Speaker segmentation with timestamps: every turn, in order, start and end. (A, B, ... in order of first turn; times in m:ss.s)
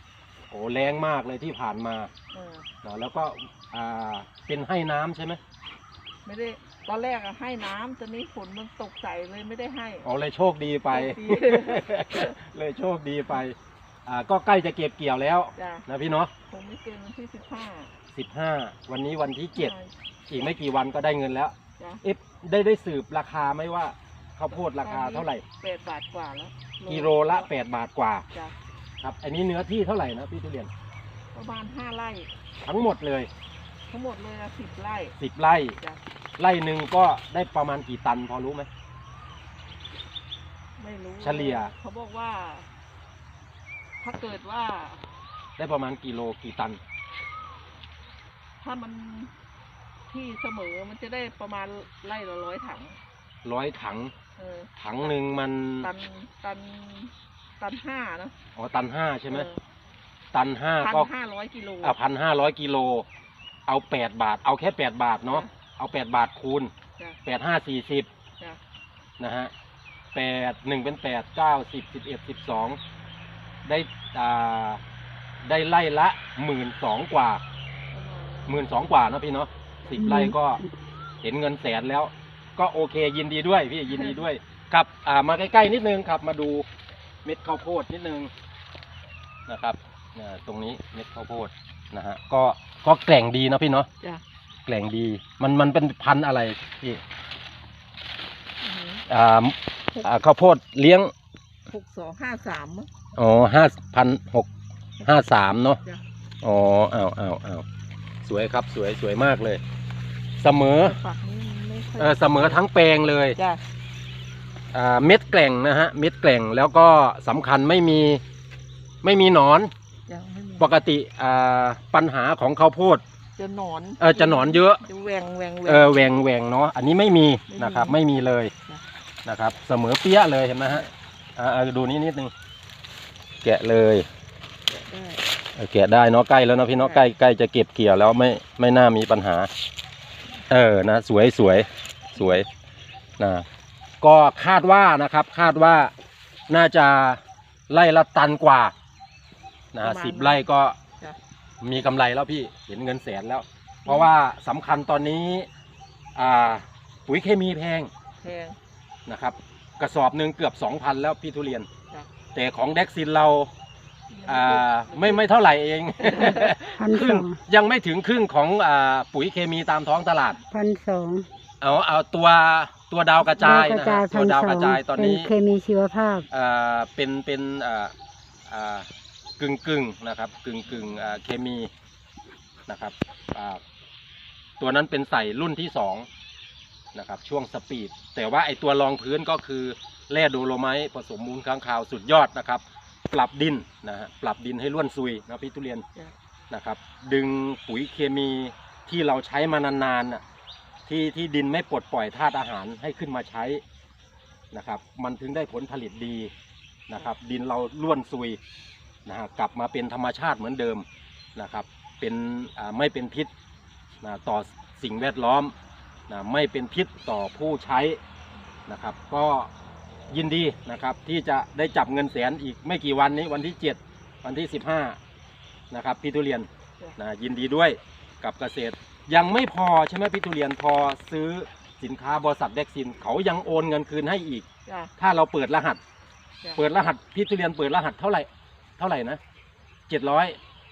0:00.5-0:02.1 A
0:02.3-0:02.7 B
0:02.8-0:05.4 A
0:06.3-0:10.1 B
0:10.0-0:16.3 A
0:10.9-0:12.3 B
0:15.6-0:15.8 B
0:16.5-0:17.9 B
0:18.1-0:19.7 A
0:19.6-0:19.9 B
0:20.3-0:25.4 A
0:24.7-0:27.5 B
0:26.9-0:28.3 A
0:29.0-0:30.7 A
0:31.3-0:32.3 B
0:32.6-0:33.3 A
0:33.9-0:35.2 B
0:35.2-0:35.8 A
0:36.4-0:38.7 A
0:40.8-0:42.7 B
0:41.2-0:41.7 A
0:44.0-0:45.1 B
0:45.6-0:46.8 A
0:48.6-0:49.3 B
0:50.1-0:53.0 B
0:53.4-0:54.1 A
0:54.4-0:55.2 B
0:54.8-0:55.9 A
0:55.8-0:58.3 B
0:58.6-0:59.5 A
0:59.3-0:59.6 B
1:00.3-1:01.1 A
1:00.8-1:02.0 B
1:01.8-1:03.1 A
1:03.7-1:06.7 A
1:07.2-1:08.1 A
1:09.2-1:09.5 A
1:10.1-1:12.8 A
1:13.6-1:14.8 A
1:15.4-1:17.4 A
1:17.9-1:18.7 B
1:18.5-1:20.6 A
1:20.0-1:20.4 C
1:21.2-1:26.7 A
1:23.9-1:24.2 B
1:27.2-1:28.3 A
1:29.5-1:33.9 A
1:34.7-1:37.0 A
1:38.6-1:39.0 B
1:39.1-1:41.1 A
1:41.7-1:42.9 B
1:43.2-1:44.5 A
1:45.0-1:45.8 A
1:45.7-1:46.0 B
1:46.4-1:47.6 A
1:48.2-1:49.6 A
1:50.4-1:51.0 A
1:50.8-1:52.6 B
1:52.0-1:53.4 A
1:53.4-1:53.6 B
1:54.7-1:58.2 A
1:59.0-1:59.7 A
2:00.1-2:00.7 B
2:00.6-2:03.0 A
2:03.4-2:06.1 B
2:04.0-2:04.8 A
2:05.6-2:08.5 A
2:07.5-2:08.0 B
2:09.2-2:10.9 A
2:11.4-2:12.3 A
2:13.4-2:14.1 A
2:14.7-2:15.2 B
2:15.6-2:19.5 A
2:16.8-2:17.1 B
2:20.5-2:22.5 A
2:22.2-2:22.4 B
2:23.2-2:23.5 A
2:24.0-2:25.9 A
2:26.5-2:28.7 A
2:29.7-2:30.8 A
2:29.8-2:30.5 B
2:31.6-2:35.5 A
2:33.9-2:34.1 B
2:36.2-2:37.9 A
2:38.2-2:38.6 B
2:39.1-2:41.7 A
2:42.3-2:43.5 A
2:44.1-2:45.3 B
2:44.3-2:50.4 A
2:46.0-2:46.8 B
2:46.8-2:47.4 C
2:50.5-2:51.3 C
2:51.6-2:55.3 A
2:53.4-2:56.3 C
2:56.3-2:57.9 A
2:58.5-2:58.9 A
2:59.4-3:01.7 A
3:02.7-3:03.6 A
3:04.6-3:06.1 A
3:06.9-3:15.9 A
3:16.5-3:20.2 A
3:20.9-3:23.6 A
3:24.5-3:26.3 A
3:26.9-3:28.4 A
3:29.0-3:33.3 A
3:34.0-3:35.5 A
3:36.1-3:38.0 A
3:38.7-3:39.5 A
3:40.1-3:45.0 A
3:45.7-3:54.5 A
3:54.7-3:54.9 B
3:55.0-3:55.8 A
3:56.6-3:59.2 A
3:59.9-4:00.4 A